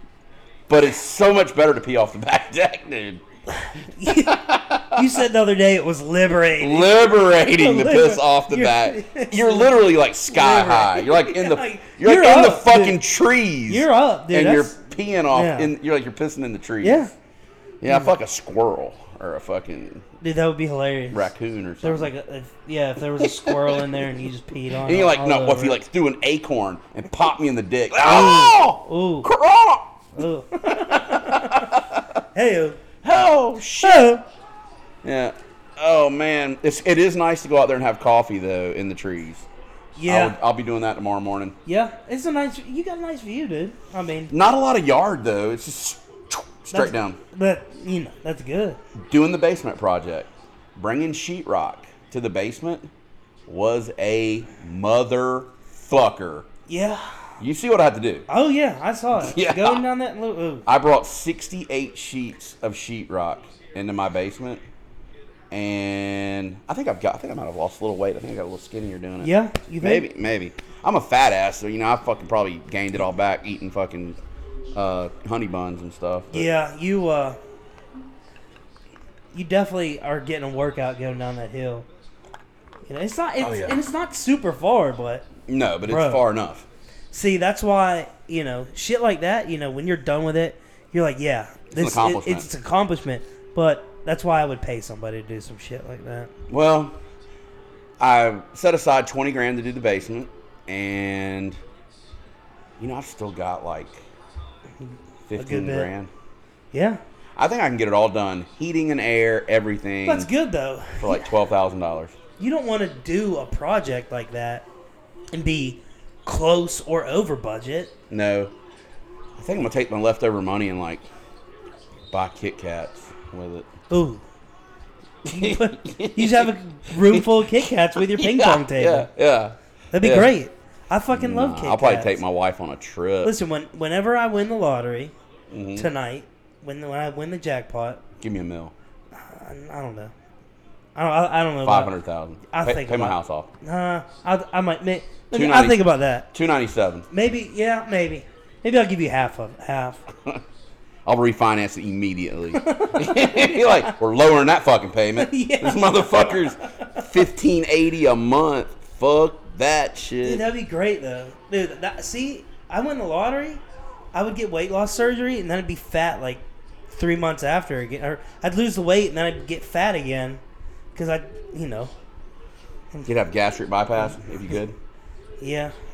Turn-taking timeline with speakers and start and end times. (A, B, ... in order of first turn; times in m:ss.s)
0:00.7-0:03.2 A
0:03.5-0:13.0 B
0:04.0-0:05.2 A
0:06.6-0:17.1 A
0:13.7-0:14.8 B
0:15.3-0:15.7 B
0:16.8-0:17.1 B
0:17.8-0:20.0 A
0:17.9-0:18.1 B
0:20.2-0:21.3 B
0:21.1-0:22.1 A
0:21.8-0:25.8 B
0:23.2-0:23.9 A
0:24.8-0:30.1 A
0:28.0-0:29.3 B
0:30.1-0:31.8 B
0:30.7-0:32.2 A
0:32.3-0:32.8 B
0:33.0-0:34.1 A
0:33.8-0:34.2 B
0:35.0-0:39.4 A
0:39.9-0:40.4 B
0:40.0-0:41.6 A
0:41.6-0:44.3 B
0:44.3-0:47.2 A
0:46.7-0:48.8 B
0:49.0-0:52.9 A
0:53.4-0:56.5 A
0:56.7-0:57.3 B
0:57.4-0:58.3 A
0:58.3-1:00.6 B
0:59.2-0:59.8 A
1:00.6-1:04.6 A
1:05.5-1:14.2 A
1:09.2-1:10.0 B
1:14.7-1:16.5 A
1:16.3-1:17.4 B
1:19.3-1:21.8 B
1:22.8-1:25.3 B
1:23.4-1:23.8 A
1:25.5-1:26.6 A
1:25.8-1:26.2 B
1:27.1-1:36.3 B
1:31.7-1:32.5 A
1:36.5-1:37.0 A
1:38.0-1:41.6 A
1:42.8-1:44.0 A
1:44.8-1:45.9 B
1:45.3-1:46.1 A
1:46.7-1:47.0 B
1:47.4-1:50.3 A
1:50.0-1:51.3 B
1:51.0-1:52.2 A
1:52.4-1:54.6 B
1:55.3-1:57.9 B
1:58.1-1:58.5 A
1:59.4-2:01.0 A
2:02.1-2:03.7 A
2:03.9-2:04.2 B
2:05.2-2:10.3 A
2:05.3-2:09.1 B
2:09.9-2:12.2 B
2:11.1-2:13.3 A
2:13.2-2:15.1 B
2:15.5-2:15.9 A
2:15.8-2:18.0 B
2:18.2-2:18.7 A
2:19.1-2:20.1 B
2:20.9-2:21.9 B
2:21.6-2:23.5 A
2:22.5-2:26.3 B
2:25.3-2:27.1 A
2:27.1-2:30.0 B
2:31.0-2:40.4 A
2:32.5-2:33.9 B
2:35.2-2:37.1 B
2:40.2-2:43.6 B
2:44.1-2:50.4 B
2:50.9-2:51.9 B
2:53.0-2:54.8 A
2:55.4-2:55.7 B